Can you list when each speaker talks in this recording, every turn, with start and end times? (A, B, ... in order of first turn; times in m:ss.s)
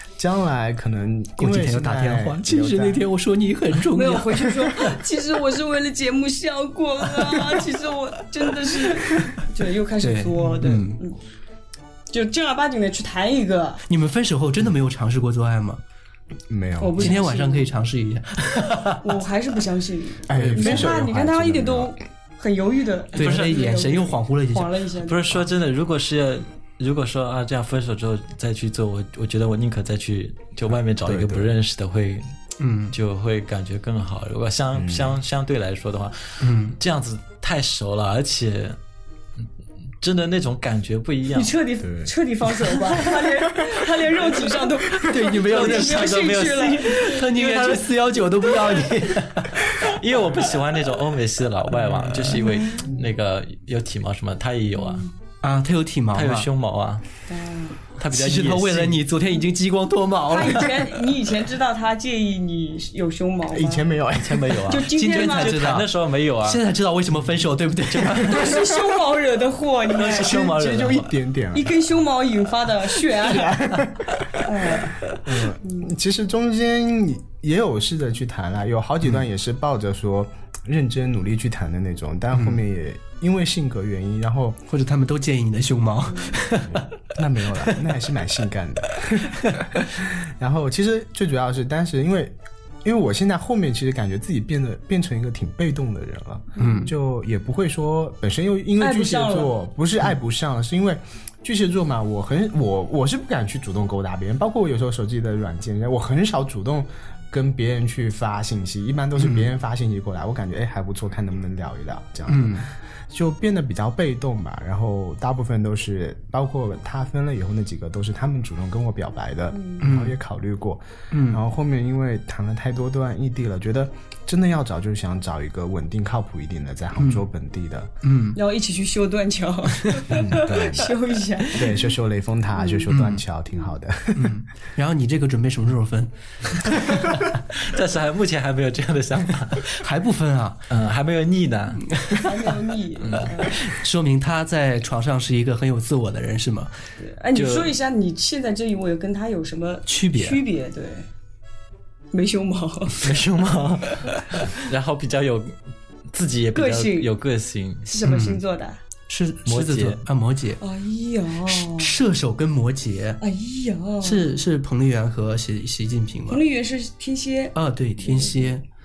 0:00.2-0:03.0 A
0:01.4-0:04.7 B
0:03.9-0:11.2 C
0:10.0-0:11.0 B
0:12.1-0:13.8 C
0:13.9-0:15.8 B
0:16.5-0:17.2 A
0:16.8-0:17.7 C
0:17.0-0:19.0 B
0:19.0-0:25.4 C
0:20.3-0:21.9 A
0:20.3-0:20.9 B
0:23.1-0:24.7 B
0:23.2-0:23.7 D
0:25.0-0:32.2 D
0:31.0-0:31.5 A
0:32.6-0:32.9 B
0:32.9-0:38.8 D
0:34.7-0:35.2 A
0:36.4-0:36.8 B
0:40.0-0:41.5 D
0:41.3-0:47.2 C
0:41.8-0:42.1 A
0:45.0-0:49.5 B
0:45.3-0:47.8 D
0:49.8-0:55.1 D
0:52.3-0:52.9 C
0:54.7-0:55.1 C
0:55.4-0:56.5 B
0:56.1-0:57.0 D
0:57.3-0:57.7 C
0:58.0-0:59.0 D
0:58.1-1:00.8 B
1:00.3-1:03.8 C
1:03.5-1:04.7 A
1:04.1-1:06.6 D
1:04.7-1:05.6 C
1:04.9-1:08.4 B
1:07.9-1:08.6 D
1:08.2-1:10.4 C
1:09.9-1:11.2 D
1:10.1-1:11.8 A
1:11.5-1:13.7 C
1:13.0-1:14.5 A
1:14.4-1:15.0 C
1:15.2-1:24.6 A
1:22.3-1:22.6 B
1:24.7-1:26.9 B
1:26.0-1:26.4 C
1:26.6-2:07.9 A
1:36.6-1:36.9 C
1:36.6-1:36.9 B
1:38.8-1:39.5 C
1:49.2-1:49.5 B
1:52.3-1:52.7 B
1:59.5-1:59.8 C
1:59.8-2:00.2 B
2:01.1-2:01.4 B
2:07.0-2:07.2 B
2:08.0-2:08.4 B
2:08.3-2:11.9 C
2:10.1-2:11.0 A
2:11.5-2:14.4 A
2:12.5-2:12.9 C
2:12.9-2:13.2 B
2:14.1-2:17.1 B
2:17.1-2:19.8 D
2:19.7-2:20.6 B
2:20.7-2:22.0 D
2:21.9-2:22.3 B
2:22.2-2:23.5 C
2:23.0-2:23.4 D
2:23.5-2:26.7 B
2:27.0-2:31.1 C
2:27.3-2:27.7 D
2:29.9-2:30.4 B
2:32.1-2:33.1 C
2:33.0-2:35.6 D
2:36.1-2:38.0 D
2:36.5-2:37.1 C
2:37.9-2:38.8 C
2:38.0-2:38.4 B
2:39.1-2:40.6 B
2:39.4-2:40.0 D
2:40.6-2:41.9 C
2:41.7-2:43.2 B
2:43.2-2:44.3 C
2:44.0-2:46.4 B
2:46.3-2:48.5 C
2:47.5-2:48.6 B